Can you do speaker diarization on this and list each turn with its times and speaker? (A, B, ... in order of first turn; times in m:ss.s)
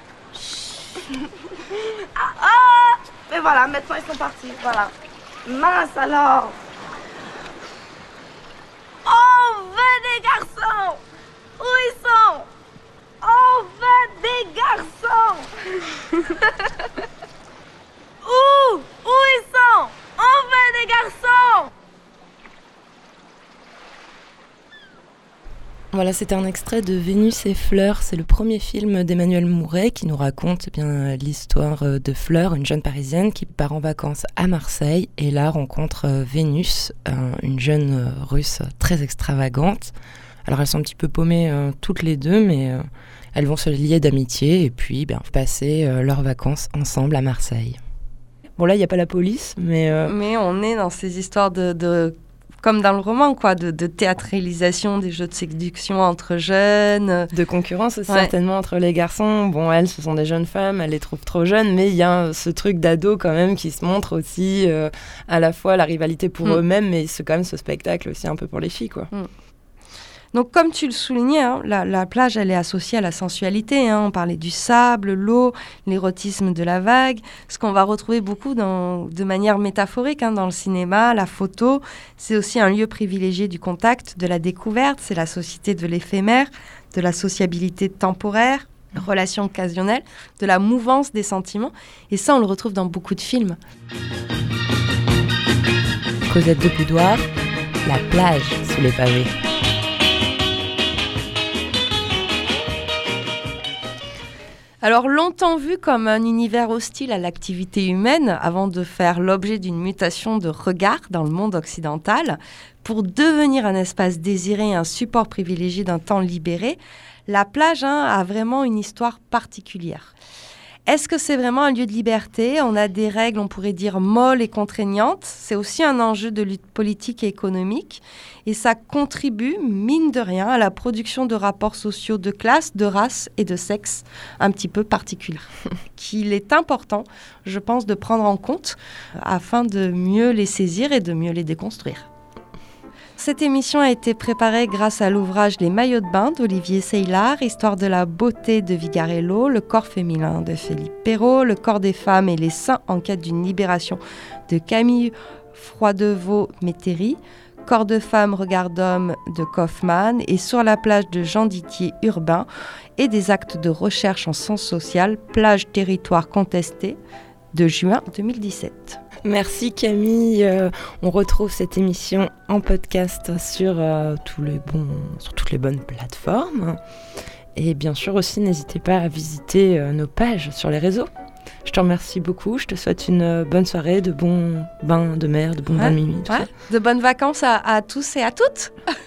0:00.3-0:04.9 A
0:05.4-0:06.6 A
0:09.0-0:11.0 A
0:11.6-0:12.5 A
0:13.2-0:16.9 A
0:18.2-0:21.7 A
0:25.9-0:39.9 B
0:40.4-0:47.8 B
0:48.6-0:50.1 B
0:50.0-0:57.3 C
0:57.3-1:09.1 B
1:10.3-1:33.6 C
1:36.3-1:37.3 B
1:37.8-1:39.3 B
1:44.8-2:00.1 C
2:00.9-2:22.1 C
2:23.2-2:47.0 C
2:47.5-2:49.0 C
2:49.2-2:56.8 B
2:57.6-3:01.1 B
3:01.6-3:06.5 B
3:05.8-3:08.7 C